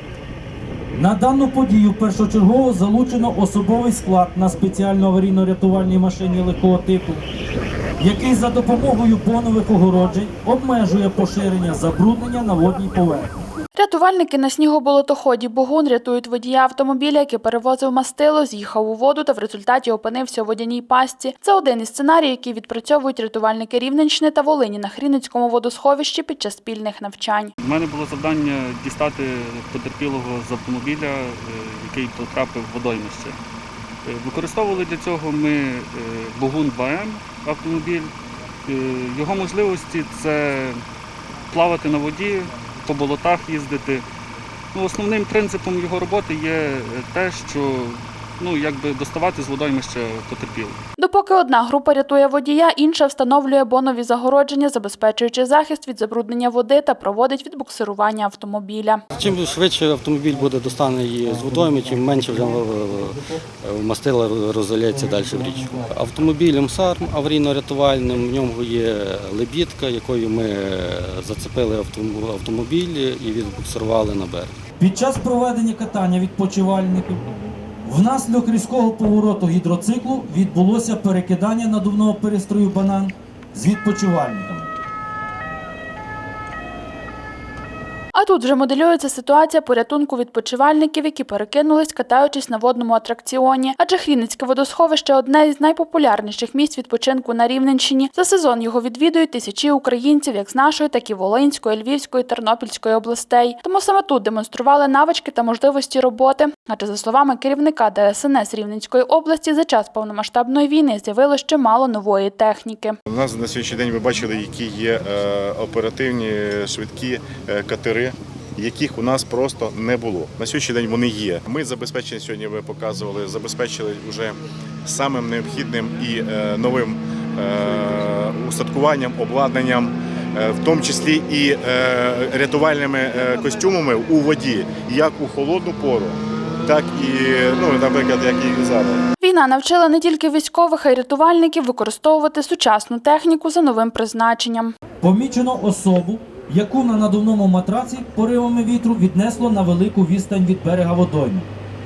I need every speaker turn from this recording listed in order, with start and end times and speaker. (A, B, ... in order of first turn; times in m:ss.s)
0:00.9-0:07.2 A
0:08.0-0:13.4 A
0:13.8-0:27.5 B
0:27.6-0:33.4 C
0:34.0-0:38.1 C
0:38.7-0:40.8 C
0:41.5-0:44.0 C
0:44.7-0:50.8 C
0:51.0-0:59.0 B
0:59.2-1:14.6 D
1:14.8-1:17.2 A
1:17.8-1:24.7 A
1:28.2-1:53.0 B
1:53.1-2:19.0 E
2:19.2-2:24.7 B
2:25.0-2:31.5 A